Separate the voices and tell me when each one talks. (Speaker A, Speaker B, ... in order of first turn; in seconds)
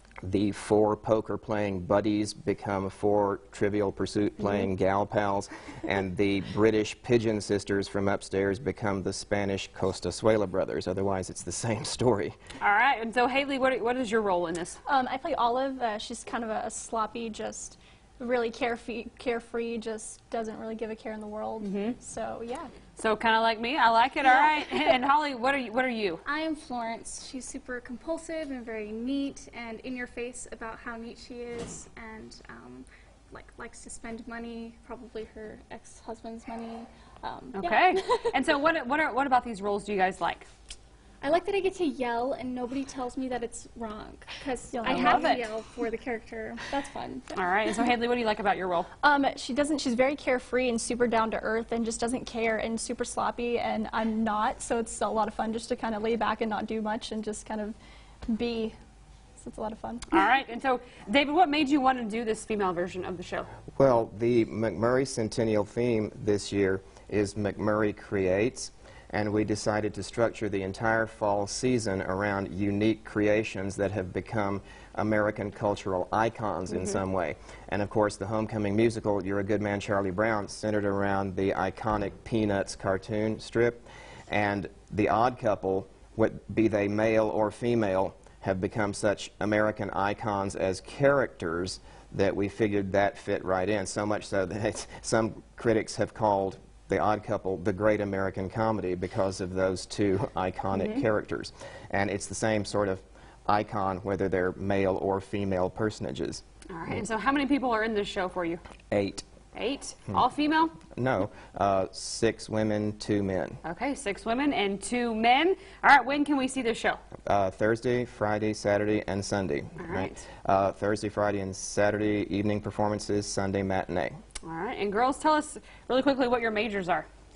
Speaker A: 0.2-12.3, 63.8-106.4, 108.9-109.2, 111.0-113.6, 117.3-124.2
Speaker B: 12.6-14.8, 21.6-22.0, 23.0-26.2, 37.5-40.5, 44.9-45.5, 47.3-48.9, 60.1-63.5, 76.7-77.0, 100.8-101.0, 106.7-108.6, 109.5-110.8, 113.6-117.0, 119.8-120.2, 124.4-127.1
Speaker C: 14.8-22.7, 44.7-45.5, 49.0-57.8, 58.3-58.8, 59.4-60.1
Speaker D: 26.2-38.4, 41.2-47.3